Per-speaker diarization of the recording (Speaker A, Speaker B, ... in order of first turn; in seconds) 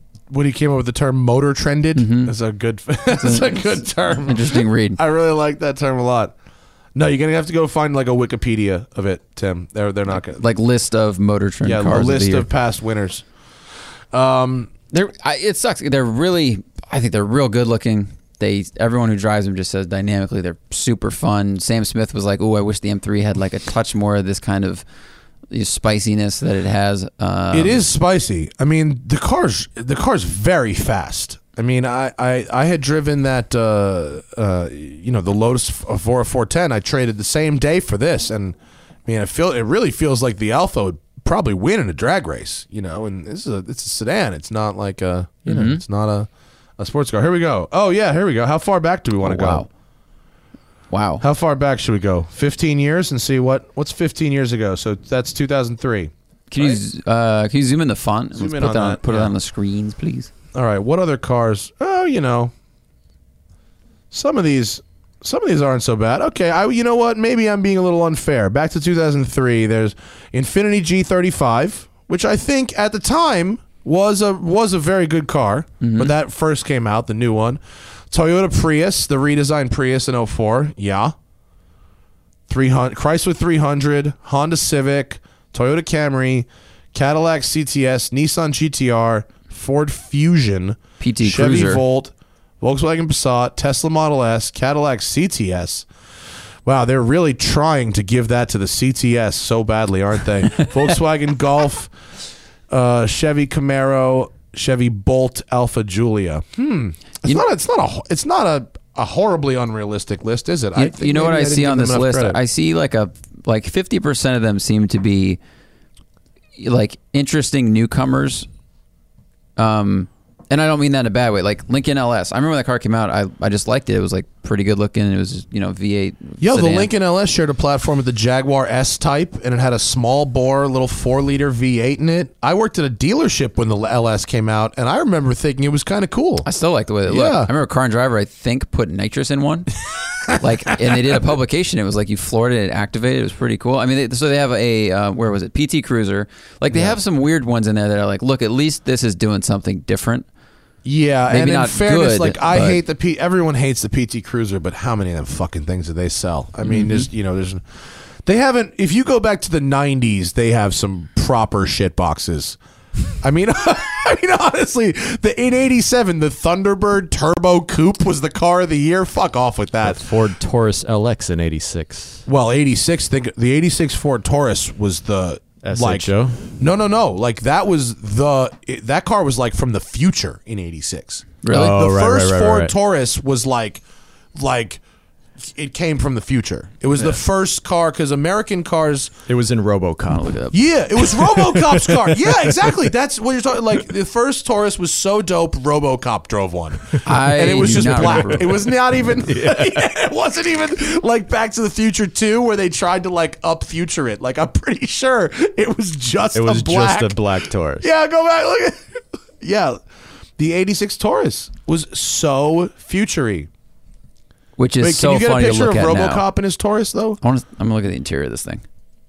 Speaker A: 0.3-6.3, 6.9-10.4, 11.6-13.2, 14.1-14.7, 27.5-49.6, 51.2-56.8, 58.3-59.3, 60.5-62.5, 64.1-77.6, 78.1-81.1, 82.5-95.9, 96.7-101.9, 102.7-112.4, 126.4-136.4, 137.1-137.5, 146.7-147.0, 150.8-157.6, 158.2-162.6, 163.2-170.0, 172.2-183.8, 184.3-184.8, 185.4-189.1, 190.5-209.8, 210.4-213.5, 214.8-217.2
Speaker B: 1.9-2.3, 3.1-5.0, 10.3-12.5, 14.9-24.8, 25.5-27.8, 45.5-45.8, 49.2-49.7, 50.9-51.2, 56.5-60.3, 75.8-76.1, 91.0-91.8, 110.8-115.4, 116.6-118.5, 119.6-126.9, 136.4-139.8, 140.3-150.2, 151.3-152.8, 156.6-157.1, 181.4-181.8, 197.1-198.6, 214.6-216.2, 217.2-218.6
Speaker C: 169.8-172.2, 175.6-176.4, 181.5-182.7, 189.3-192.8, 197.6-199.9, 206.3-207.9